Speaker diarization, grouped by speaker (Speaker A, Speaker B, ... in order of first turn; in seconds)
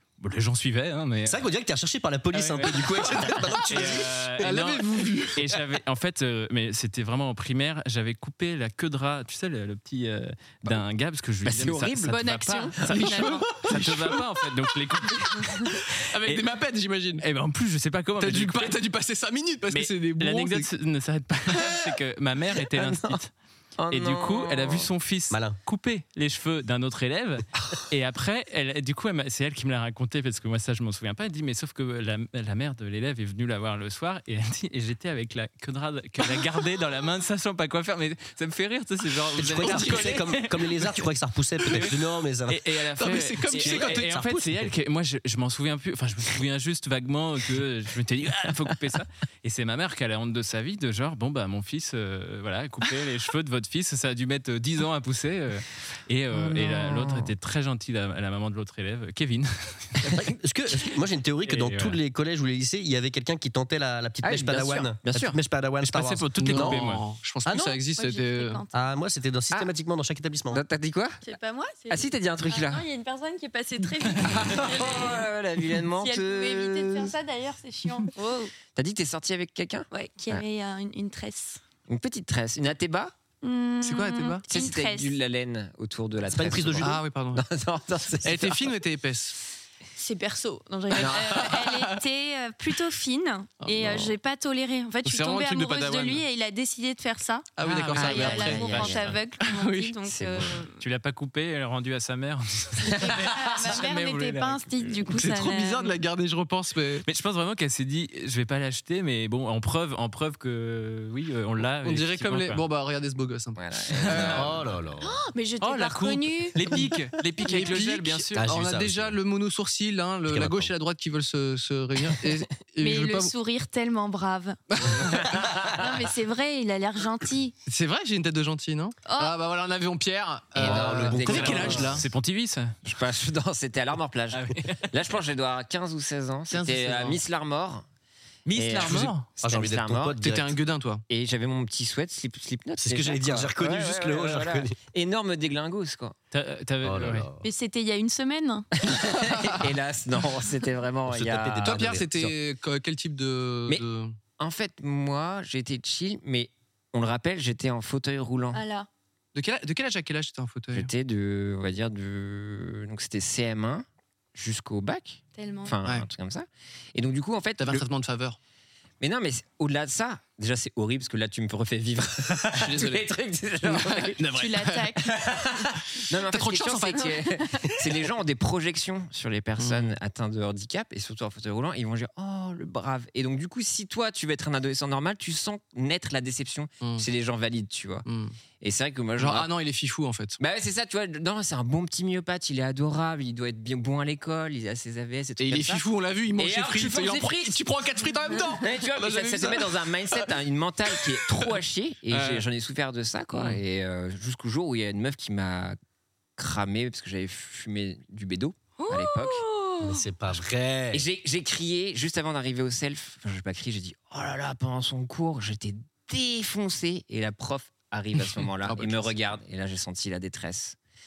Speaker A: 0.2-1.5, 2.3-16.4, 17.2-18.8, 19.7-23.3, 23.9-41.1, 41.7-60.1, 61.4-62.0, 65.8-67.0, 97.6-99.1, 100.8-105.0, 107.0-112.6, 113.9-114.5, 116.5-118.5, 131.2-132.8, 134.3-134.9, 138.5-139.2, 146.3-147.3
Speaker B: 1.2-4.3, 25.3-25.6, 39.4-42.7, 43.5-44.7, 60.0-66.8, 67.5-67.8, 68.7-70.6, 86.3-87.0, 114.2-115.2, 118.3-119.2, 120.3-120.7, 130.6-132.0, 138.8-140.6, 142.8-144.7, 146.8-147.4, 151.1-152.1, 209.8-211.1
Speaker C: 3.3-3.6, 4.4-5.5, 12.9-14.3, 15.9-17.2, 18.2-20.7, 39.4-40.4, 43.0-44.2, 66.4-68.6, 83.8-84.4, 86.8-87.4, 88.2-89.4, 91.0-92.0, 93.6-94.1, 95.0-96.2, 97.6-99.9, 105.1-107.1, 111.8-114.7, 115.6-123.3, 124.7-125.3, 127.7-132.1, 136.5-137.2, 138.5-139.3, 140.2-141.0, 149.4-149.6, 151.6-154.2, 159.3-160.9, 167.6-168.4, 172.5-175.1, 176.2-177.2, 179.6-180.0, 186.8-187.1, 188.1-188.4, 189.2-190.4, 195.4-200.3, 200.9-201.5, 202.1-202.4, 218.7-219.2
Speaker D: 11.4-12.7, 13.7-14.0, 22.7-23.2, 23.8-24.9, 56.3-57.3, 64.2-65.4, 70.5-71.2, 71.9-72.8, 74.2-77.1, 78.8-80.4, 81.9-83.1, 84.5-88.7, 91.0-91.5, 97.9-99.2, 100.0-100.6, 113.6-114.5, 125.3-125.7, 130.6-132.0, 132.8-137.9, 138.5-140.2, 141.1-146.2, 148.8-152.3, 154.4-158.6, 160.7-167.9, 169.0-174.2, 175.1-188.1, 188.6-189.5, 190.4-195.8, 196.4-197.6, 198.3-205.8, 206.4-209.4, 210.9-220.8
Speaker E: 12.1-13.5, 68.0-68.7, 71.2-75.2, 76.0-78.5, 79.9-81.6, 83.4-85.2, 90.0-100.8, 102.9-106.0, 115.0-116.6, 122.8-124.9, 125.6-127.5, 129.1-129.3, 147.4-148.7, 158.5-158.9, 165.4-165.8, 174.3-175.7, 176.9-177.7, 208.8-209.9